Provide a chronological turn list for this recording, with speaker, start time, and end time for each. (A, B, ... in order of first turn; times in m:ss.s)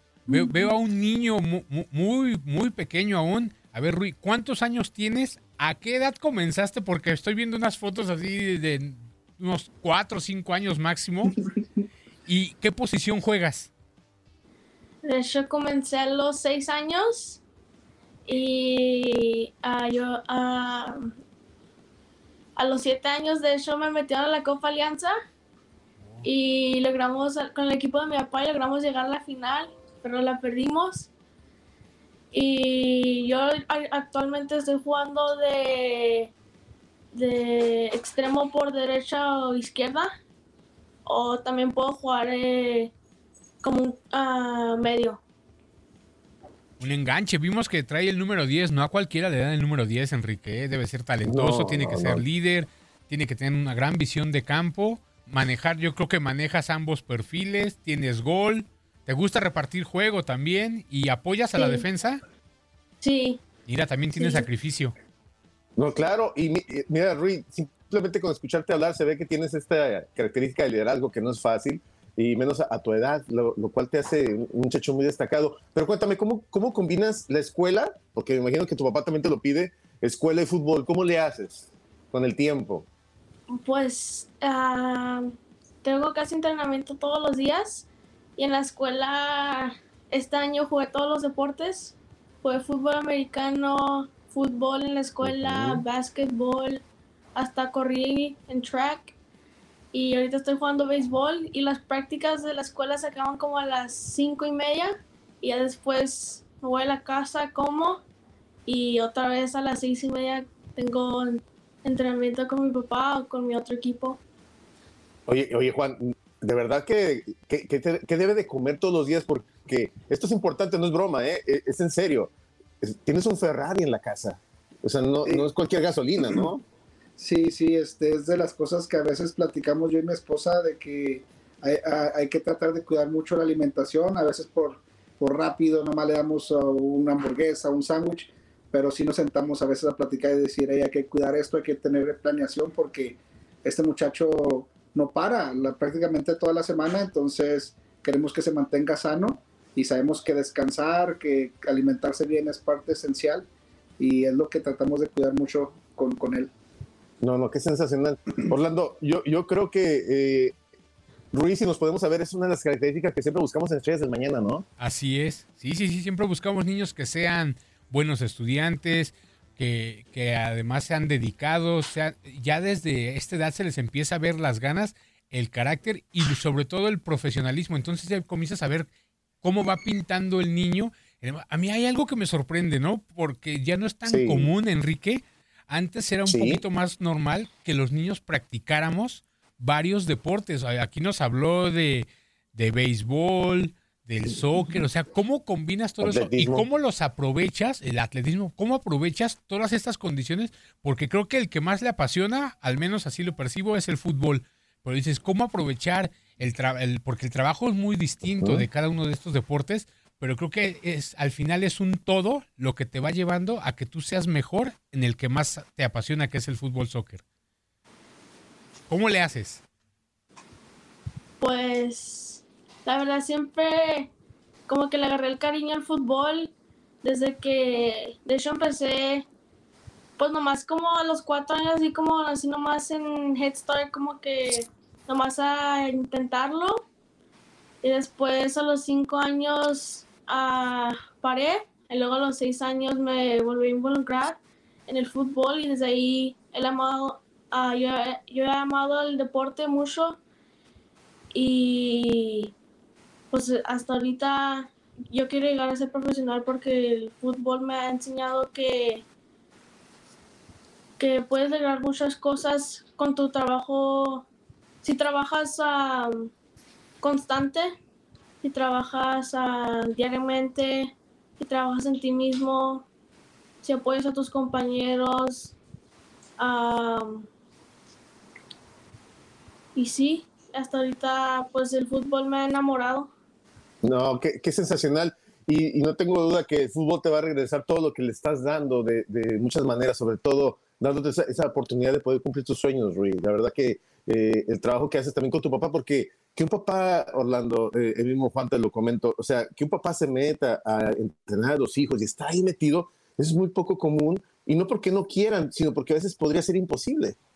0:00.3-0:00.7 A
0:00.3-0:11.3 B
0:12.2-0:13.7 B
0:15.0-0:17.4 A
0:18.2-0:21.1 A
0:22.6-0:25.1 A
0:26.2-0:31.1 A
0:32.3-0:36.3 A
0:37.1-0:40.1 A
0:41.0-0:42.9 A
0:43.6-0:45.2 A
0:46.8-1:02.2 B
0:51.2-0:52.2 C
1:01.5-1:01.8 A
1:03.0-1:03.4 A
1:03.7-1:04.9 B
1:04.2-1:04.5 A
1:05.8-1:22.9 C
1:23.5-1:25.3 A
1:25.8-1:36.8 A
1:35.2-1:35.8 C
1:37.3-1:39.1 A
1:39.9-1:48.0 A
1:48.6-1:54.2 A
1:55.3-2:06.6 C
2:07.2-2:33.5 D
2:34.0-2:36.5 D
2:37.2-2:40.6 C
2:41.3-2:44.6 C
2:44.8-2:58.9 B
2:59.4-3:37.2 B
3:04.0-3:04.5 C
3:06.2-3:06.6 C
3:16.0-3:16.7 C
3:28.4-3:28.7 C
3:38.9-3:39.6 B
3:41.4-3:44.1 A
3:44.7-3:46.5 A
3:47.0-3:49.2 A
3:50.2-3:56.8 A
3:57.8-4:10.2 A
4:11.3-4:12.5 A
4:13.3-4:19.0 A
4:21.0-4:24.2 A
4:24.8-4:26.3 A
4:27.0-4:27.8 A
4:28.4-4:32.8 A
4:33.6-4:35.6 A
4:36.4-4:37.3 A
4:39.7-4:43.1 A
4:43.8-5:07.2 C